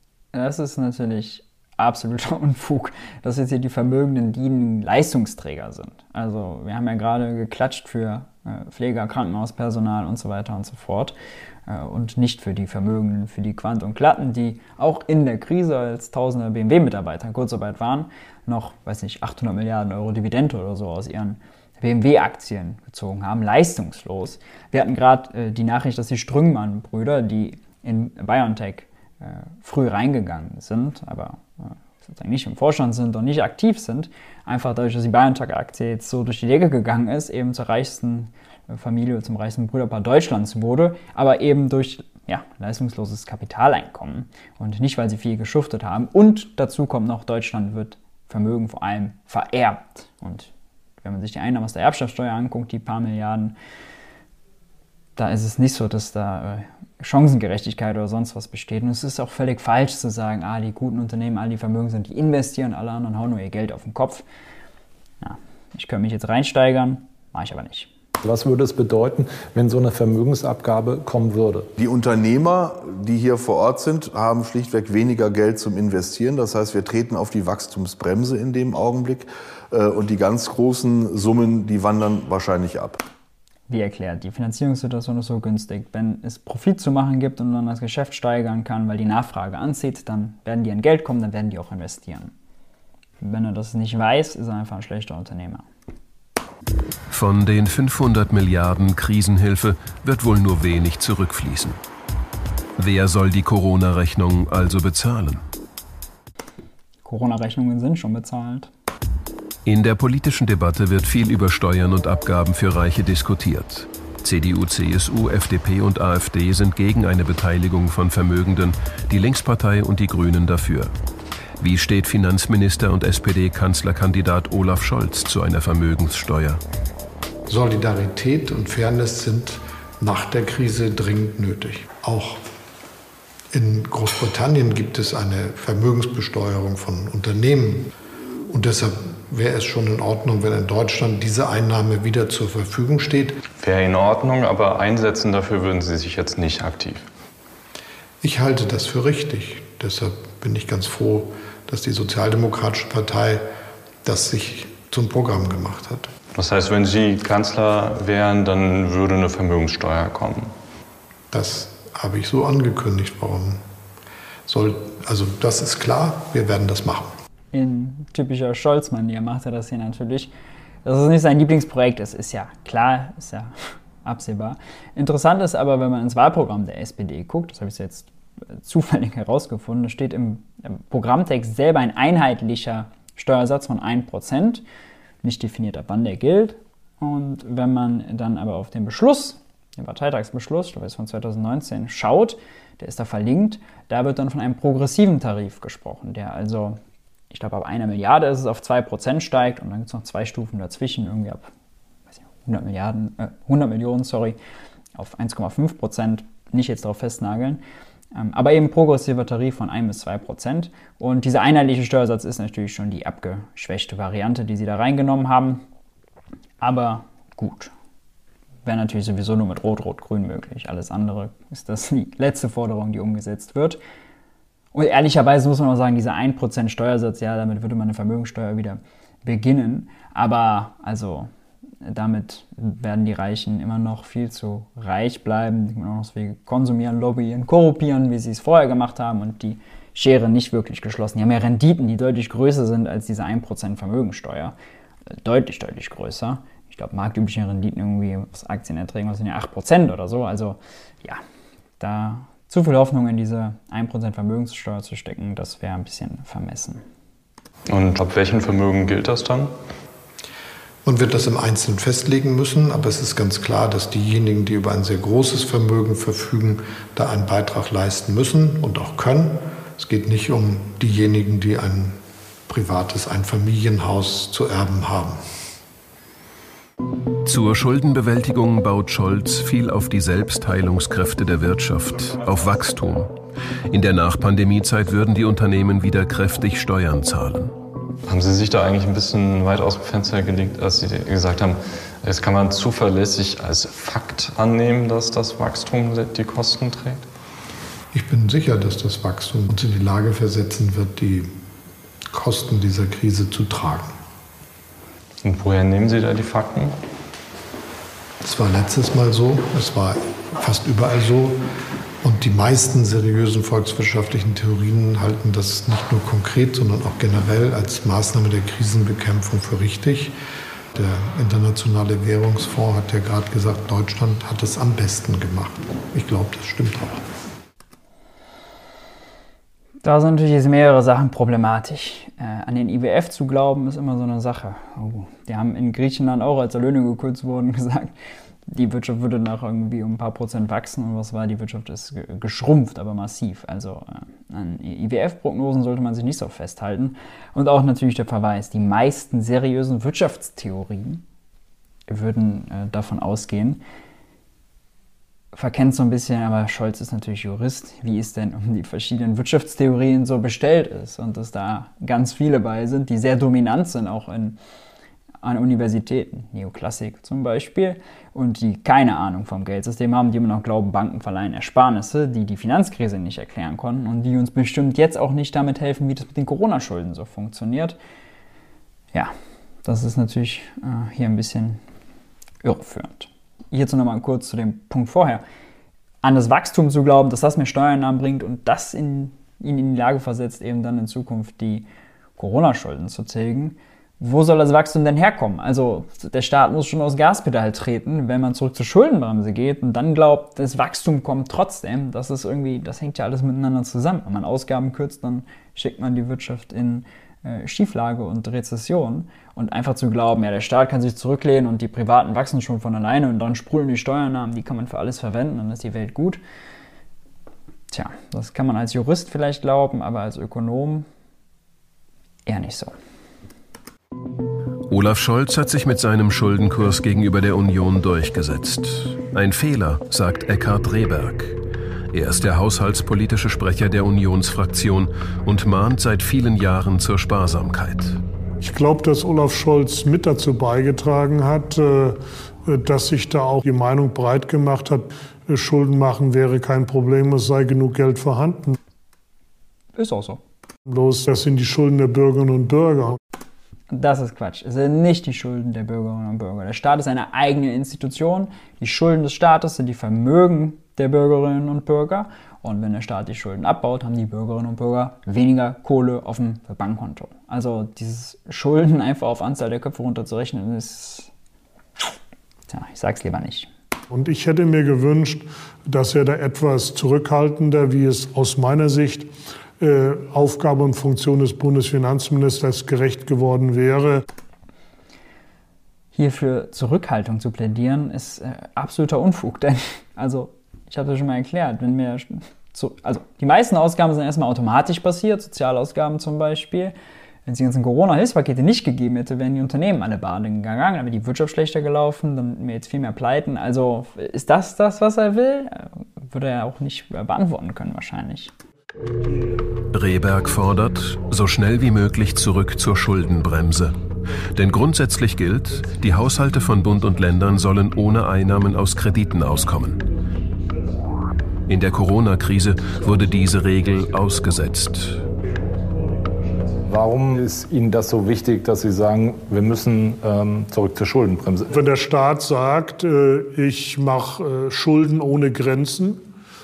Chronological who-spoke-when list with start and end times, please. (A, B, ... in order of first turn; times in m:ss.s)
0:00.3-0:11.1 A
0:11.7-0:53.6 A
0:55.2-1:04.2 A
1:05.2-1:07.9 A
1:08.2-1:11.7 B
1:11.8-1:23.0 C
1:23.7-1:32.3 A
1:33.2-1:35.6 A
1:37.1-1:41.8 D
1:42.8-1:45.4 D
1:47.0-1:48.7 A
1:49.6-2:00.9 D
2:01.6-2:06.6 D
2:07.5-2:12.4 E
2:13.5-2:17.9 E
2:18.5-2:23.4 E
2:23.6-2:27.1 F
2:28.2-2:33.5 E
2:34.0-2:36.1 E
2:36.4-2:40.5 F
2:41.3-2:43.6 E
2:44.5-2:47.1 E
2:47.5-2:50.3 A
2:50.8-3:04.6 A
3:05.2-3:16.8 A
3:17.3-3:21.5 A
3:22.4-3:24.4 A
3:25.0-3:27.6 A
3:28.1-3:35.6 A
3:36.6-3:37.7 A
3:38.6-3:43.8 A
3:44.7-3:51.3 A
3:51.8-4:04.6 A
4:05.2-4:11.2 A
4:11.8-4:16.8 A
4:17.7-4:19.5 F
4:20.8-4:35.2 E
4:37.2-4:43.1 D
4:43.7-4:47.6 D
4:48.1-4:57.0 F
4:57.9-5:01.3 E
5:02.1-5:04.0 E
5:05.2-5:06.8 F
5:08.2-5:11.4 E
5:12.0-5:20.2 E
5:20.7-5:27.0 E
5:29.8-5:37.9 A
5:38.5-5:51.0 A
5:51.9-5:53.6 A
5:55.3-6:04.4 A
6:05.2-6:17.8 A
6:19.6-6:21.6 A
6:22.4-6:25.2 A
6:26.0-6:31.6 A
6:32.2-6:56.2 A
6:57.7-7:00.9 A
7:02.3-7:02.7 A
7:04.7-7:11.4 D
7:11.9-7:18.0 D
7:18.4-7:28.6 G
7:29.8-7:30.2 A
7:30.7-7:33.0 G
7:33.7-7:51.1 A
7:52.5-7:53.5 A
7:53.9-8:04.0 G
8:05.9-8:16.7 A
8:17.3-8:28.3 A
8:29.7-8:33.8 D
8:34.3-8:39.8 D
8:41.5-8:45.0 D
8:46.7-8:51.5 B
8:51.5-8:56.0 G